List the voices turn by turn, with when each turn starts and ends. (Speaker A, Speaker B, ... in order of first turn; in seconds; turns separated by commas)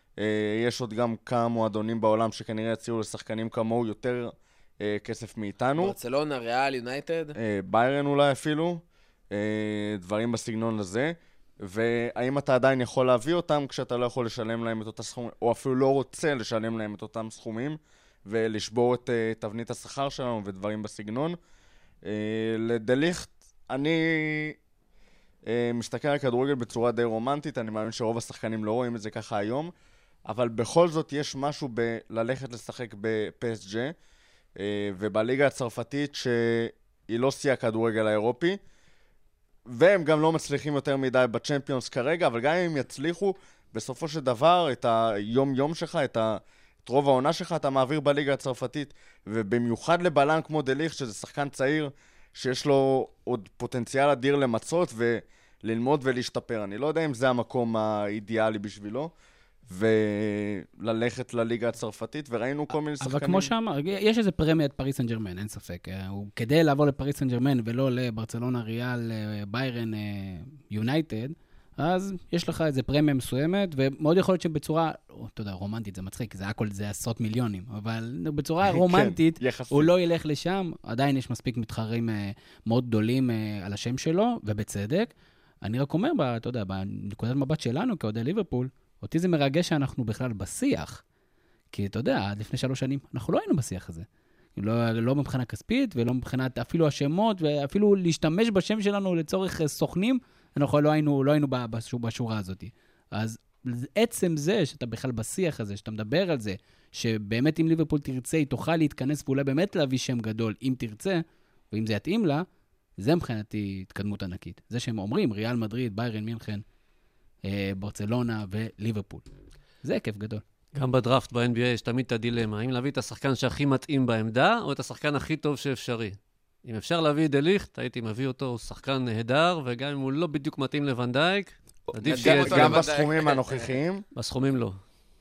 Speaker A: 0.2-5.9, Speaker B: 5.8-7.3, Speaker A: 7.3-21.4, Speaker A: 22.0-24.6, Speaker A: 25.4-29.7, Speaker A: 30.2-33.9, Speaker A: 34.5-38.6, Speaker A: 39.6-59.1, Speaker A: 59.7-63.5, Speaker C: 63.0-91.0, Speaker A: 78.6-79.9, Speaker C: 91.7-112.5, Speaker C: 113.0-116.6, Speaker C: 117.4-119.2, Speaker C: 119.8-120.4, Speaker D: 120.7-132.9, Speaker A: 131.9-134.0, Speaker B: 132.1-133.6, Speaker D: 134.2-134.8